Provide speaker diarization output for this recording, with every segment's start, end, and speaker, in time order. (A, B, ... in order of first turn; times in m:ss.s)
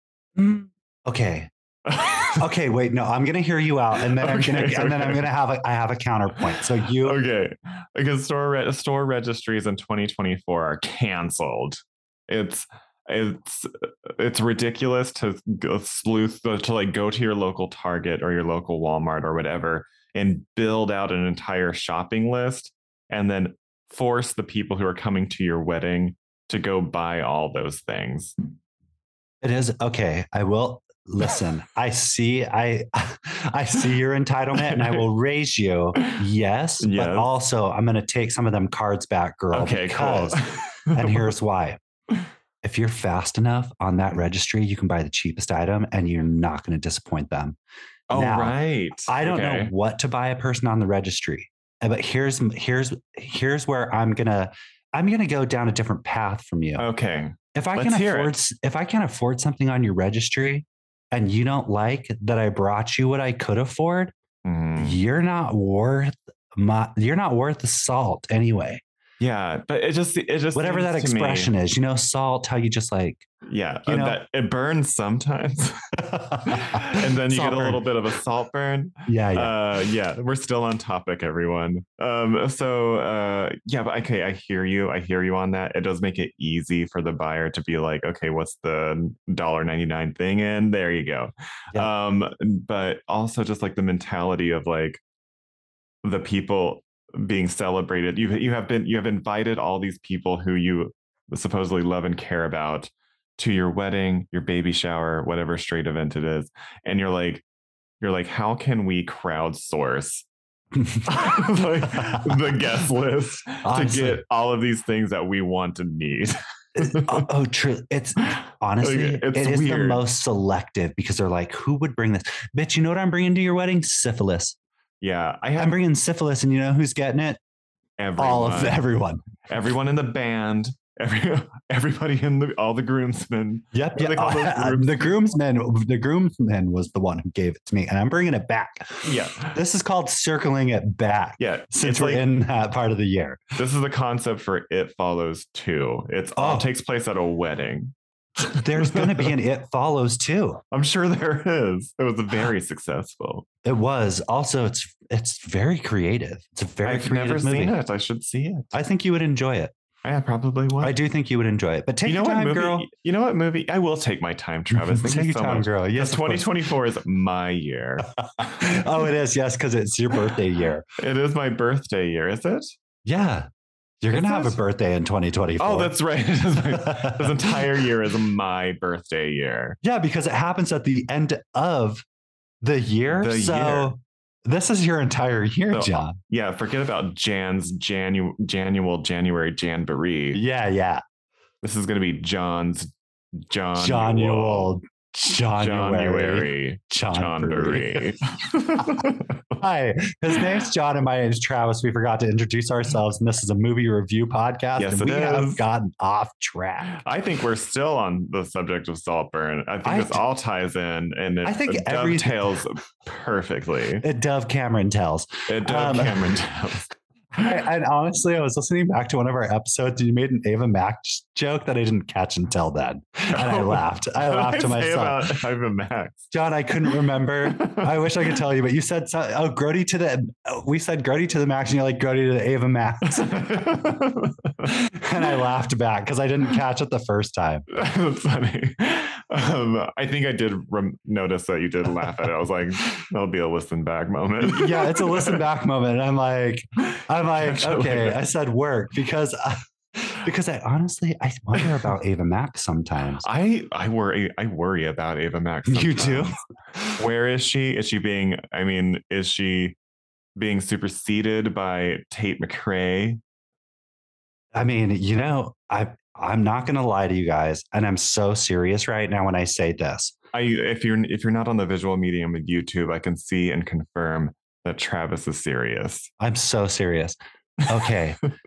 0:00.4-0:01.5 A
0:01.8-0:02.4 B
0:02.4-0:07.2 A
0:04.1-0:05.2 B
0:06.4-0:28.3 B
0:29.4-0:41.8 A
0:34.6-0:35.0 B
0:36.8-0:37.3 B
0:39.5-0:41.3 B
0:42.6-0:47.6 A
0:48.1-0:49.7 B
0:48.1-0:56.8 A
0:56.8-0:58.3 B
0:57.5-1:04.1 A
1:04.4-1:05.0 B
1:04.8-1:08.8 A
1:09.2-1:11.5 B
1:10.5-1:13.3 A
1:13.4-1:15.8 B
1:13.8-1:14.2 A
1:16.1-1:17.8 A
1:16.4-1:35.0 B
1:19.1-1:19.5 A
1:36.0-1:47.4 B
1:48.0-1:50.2 B
1:50.8-1:51.1 A
1:51.0-1:57.3 B
1:51.9-1:52.3 A
1:53.6-1:54.2 A
1:56.8-2:04.6 A
1:58.8-2:00.0 B
2:05.0-2:05.8 B
2:05.6-2:07.4 A
2:08.0-2:08.8 B
2:08.2-2:09.2 A
2:09.4-2:15.1 B
2:13.7-2:23.5 A
2:19.0-2:19.6 B
2:21.4-2:22.2 B
2:23.6-2:29.3 B
2:26.4-2:26.7 A
2:28.4-2:30.6 A
2:30.7-2:33.4 B
2:33.6-2:37.8 A
2:36.8-2:38.7 B
2:38.7-2:39.7 A
2:40.0-2:41.0 B
2:40.8-2:42.9 A
2:42.0-2:48.8 B
2:44.7-2:46.5 A
2:48.4-2:50.8 A
2:51.0-2:52.7 B
2:53.0-2:53.5 A
2:54.0-2:55.9 A
2:54.1-2:54.6 B
2:55.6-2:59.8 B
2:56.7-2:57.6 A
2:59.8-3:02.0 A
3:02.6-3:06.2 A
3:03.1-3:03.9 B
3:05.7-3:10.4 B
3:10.3-3:11.0 A
3:11.6-3:14.7 B
3:13.8-3:18.1 A
3:15.6-3:19.4 B
3:18.8-3:19.0 A
3:19.6-3:27.0 A
3:24.8-3:25.6 B
3:26.9-3:34.0 B
3:29.8-3:30.2 A
3:31.4-3:32.6 A
3:34.0-3:36.4 A
3:35.5-3:36.9 B
3:37.3-3:45.3 A
3:43.3-3:46.2 B
3:46.3-3:53.4 A
3:47.4-3:48.1 B
3:53.1-3:55.3 B
3:54.6-3:57.7 A
3:57.7-4:05.4 B
4:04.4-4:13.2 A
4:06.9-4:08.2 B
4:13.2-4:16.3 B
4:15.7-4:17.0 A
4:17.0-4:19.8 B
4:20.4-4:23.2 B
4:24.5-4:30.2 A
4:30.3-4:36.1 B
4:36.2-4:38.2 A